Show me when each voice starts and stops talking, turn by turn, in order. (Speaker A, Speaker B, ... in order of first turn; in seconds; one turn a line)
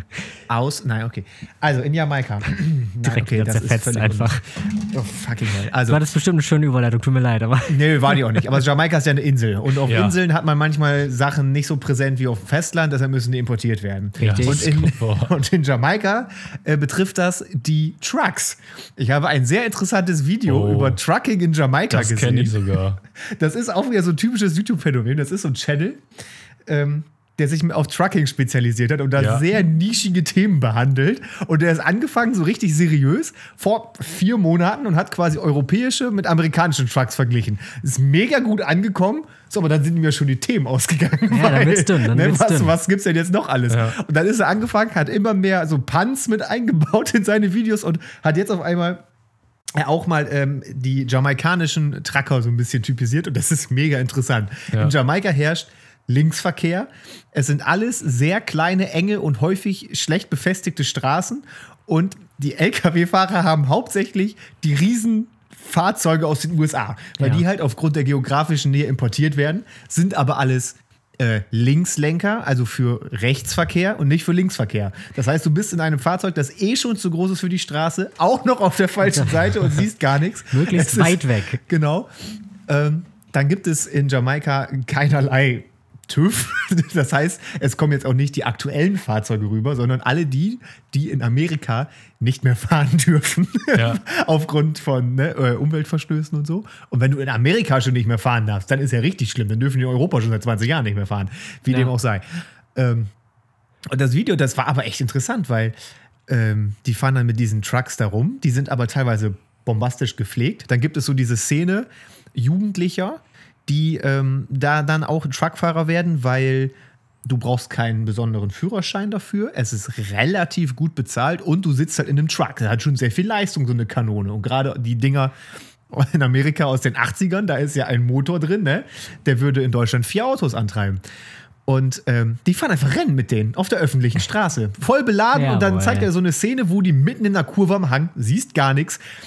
Speaker A: 0.5-6.1
Speaker B: 3.0-4.4
Speaker B: 5.9-8.4
Speaker A: 7.7-22.6
Speaker C: 9.8-10.2
Speaker B: 14.2-14.7
Speaker C: 14.2-15.3
Speaker C: 20.4-21.0
Speaker C: 21.9-23.0
Speaker A: 23.3-26.0
Speaker A: 26.6-49.0
Speaker C: 29.1-29.4
Speaker B: 41.3-42.7
Speaker C: 43.7-44.0
Speaker A: 49.8-82.1
Speaker B: 79.0-79.8
Speaker B: 80.5-81.6
Speaker A: 82.7-103.1
Speaker C: 93.7-94.0
Speaker B: 101.7-101.9
Speaker A: 103.9-105.8
Speaker A: 106.3-116.7
Speaker A: 117.2-125.3
Speaker A: 125.9-131.0
Speaker A: 131.7-139.0
Speaker B: 135.3-136.1